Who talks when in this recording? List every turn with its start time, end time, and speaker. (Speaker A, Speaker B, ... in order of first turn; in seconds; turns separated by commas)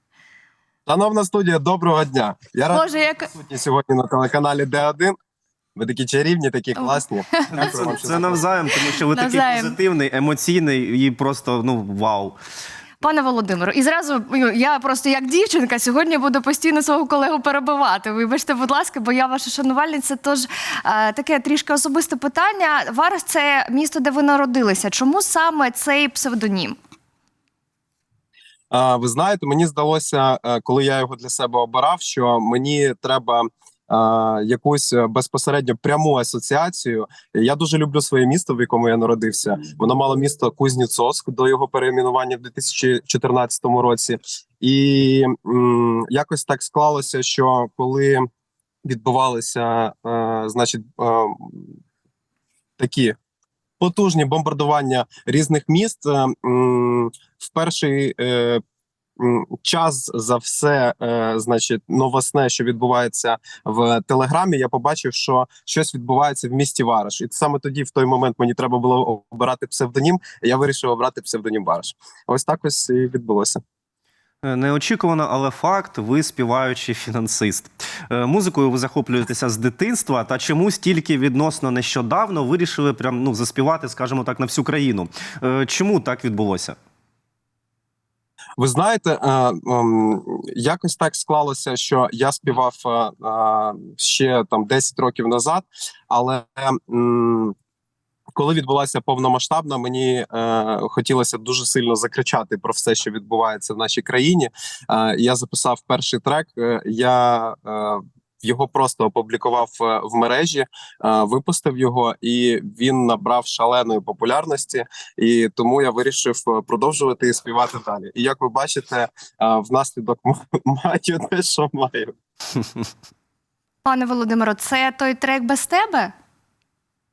Speaker A: 0.9-5.1, Speaker B: 2.7-3.3, Speaker A: 5.8-8.4, Speaker B: 6.8-7.9, Speaker C: 7.5-12.4, Speaker B: 8.8-9.8, Speaker B: 13.0-26.8, Speaker A: 28.7-48.2, Speaker A: 48.9-51.7, Speaker A: 52.8-53.1, Speaker A: 53.8-58.6, Speaker A: 59.2-73.6, Speaker C: 74.4-86.8, Speaker A: 88.6-97.5, Speaker A: 98.3-122.1, Speaker B: 123.8-126.1